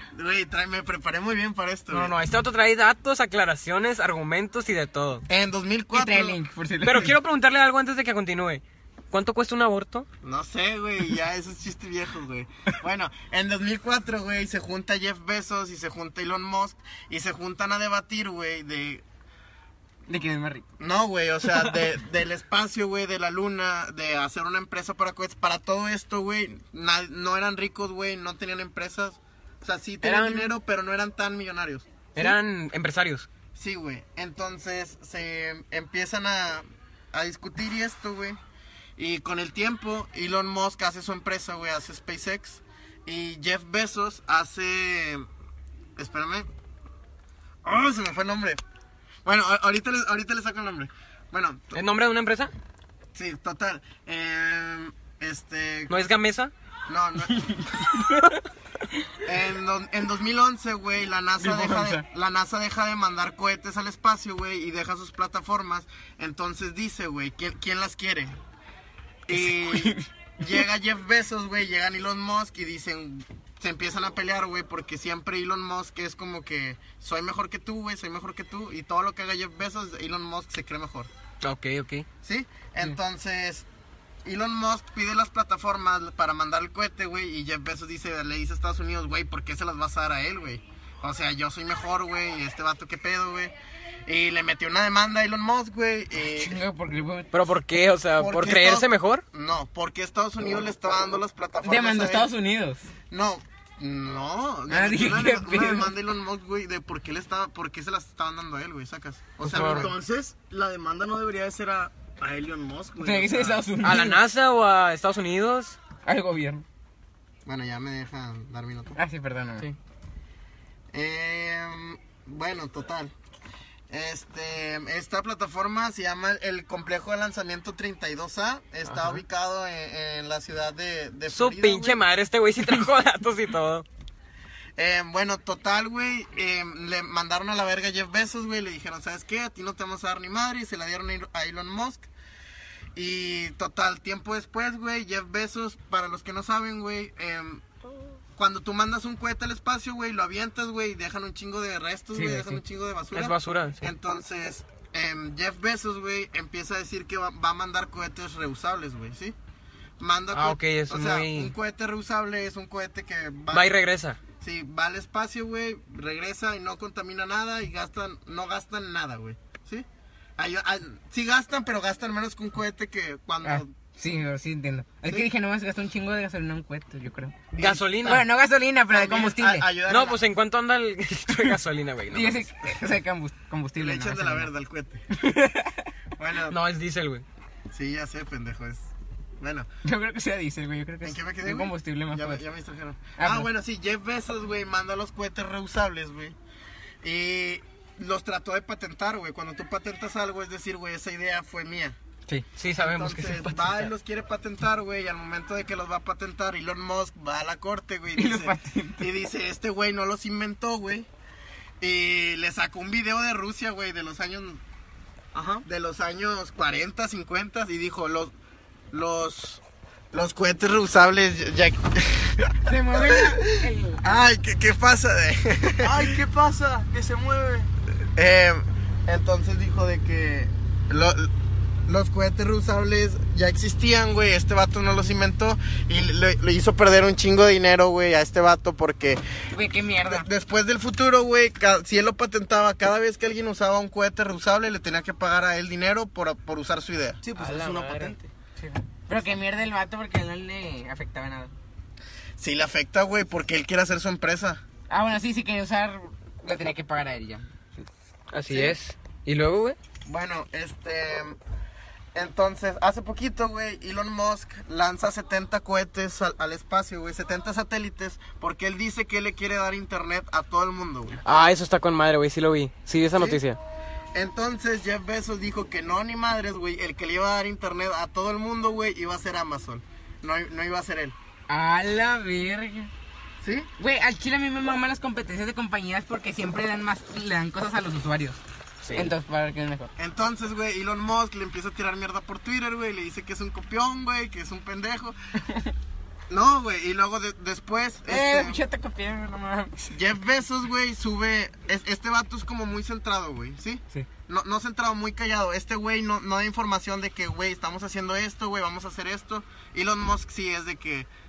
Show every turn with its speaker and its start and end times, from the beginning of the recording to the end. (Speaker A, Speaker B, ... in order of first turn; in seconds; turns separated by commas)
Speaker A: 0.1-2.1, Speaker B: 1.9-5.2, Speaker A: 5.3-6.4, Speaker C: 5.9-7.1, Speaker B: 6.8-10.1, Speaker A: 10.2-19.0, Speaker C: 20.1-20.6, Speaker A: 20.8-32.4, Speaker B: 30.0-30.5, Speaker B: 32.1-33.3, Speaker A: 33.5-38.4, Speaker A: 39.0-45.2, Speaker A: 46.0-46.5, Speaker A: 47.6-48.6, Speaker A: 49.2-51.8, Speaker B: 51.7-52.5, Speaker A: 53.1-56.0, Speaker B: 55.9-56.5, Speaker A: 56.9-57.6, Speaker C: 57.4-58.2, Speaker A: 59.2-68.4, Speaker C: 61.4-62.0, Speaker C: 69.3-70.0, Speaker A: 69.3-81.1, Speaker B: 81.4-82.0, Speaker A: 82.2-83.7, Speaker A: 84.2-93.5, Speaker A: 94.0-96.6, Speaker C: 96.3-97.5, Speaker B: 97.3-99.2, Speaker A: 98.2-102.3, Speaker C: 101.6-102.9, Speaker A: 103.1-110.0, Speaker C: 104.7-105.9, Speaker B: 109.4-109.9, Speaker D: 109.6-113.7, Speaker C: 113.0-114.2, Speaker B: 113.8-115.8, Speaker C: 116.0-116.6, Speaker A: 117.5-119.0, Speaker C: 119.0-119.7, Speaker A: 120.9-123.1, Speaker A: 123.9-132.0, Speaker B: 128.8-129.2, Speaker B: 131.3-133.8, Speaker A: 134.8-142.1, Speaker A: 142.9-147.6, Speaker A: 148.4-159.3, Speaker C: 152.1-152.6, Speaker B: 153.1-153.9, Speaker A: 160.0-163.7, Speaker B: 160.3-161.5, Speaker B: 163.5-164.2, Speaker A: 164.4-169.8, Speaker A: 170.4-173.7, Speaker C: 173.4-177.4, Speaker A: 177.5-178.3, Speaker B: 177.6-178.2, Speaker C: 178.0-179.7, Speaker A: 178.9-180.2, Speaker B: 179.9-182.4, Speaker C: 182.1-184.5, Speaker A: 183.8-185.1, Speaker C: 185.1-185.9, Speaker A: 186.2-186.6, Speaker B: 186.5-187.2, Speaker A: 187.7-188.9, Speaker A: 189.4-189.7, Speaker C: 189.8-192.4, Speaker A: 191.0-196.3, Speaker C: 193.2-193.5, Speaker A: 197.0-201.9, Speaker B: 202.6-203.9, Speaker A: 202.8-211.1, Speaker C: 208.2-209.1, Speaker A: 211.8-214.6, Speaker D: 215.3-215.7, Speaker A: 215.6-218.3, Speaker A: 218.9-219.6, Speaker A: 220.1-226.0, Speaker C: 222.6-224.2, Speaker D: 225.8-227.7, Speaker A: 228.2-231.3, Speaker A: 231.9-239.2, Speaker C: 239.5-240.3, Speaker A: 240.0-247.2, Speaker D: 247.2-248.2, Speaker B: 247.4-248.3, Speaker C: 248.6-251.5, Speaker A: 252.4-254.6, Speaker C: 254.9-257.9, Speaker B: 258.3-259.8, Speaker A: 258.5-258.8, Speaker A: 260.1-261.4, Speaker A: 262.1-271.3, Speaker B: 271.2-273.6, Speaker A: 273.1-273.4, Speaker A: 274.1-281.1, Speaker C: 281.5-282.9, Speaker A: 283.4-283.7, Speaker C: 283.8-288.4, Speaker B: 288.8-289.1, Speaker C: 288.9-289.9, Speaker A: 290.0-295.1, Speaker A: 296.3-298.6, Speaker C: 298.1-299.9, Speaker A: 299.9-311.1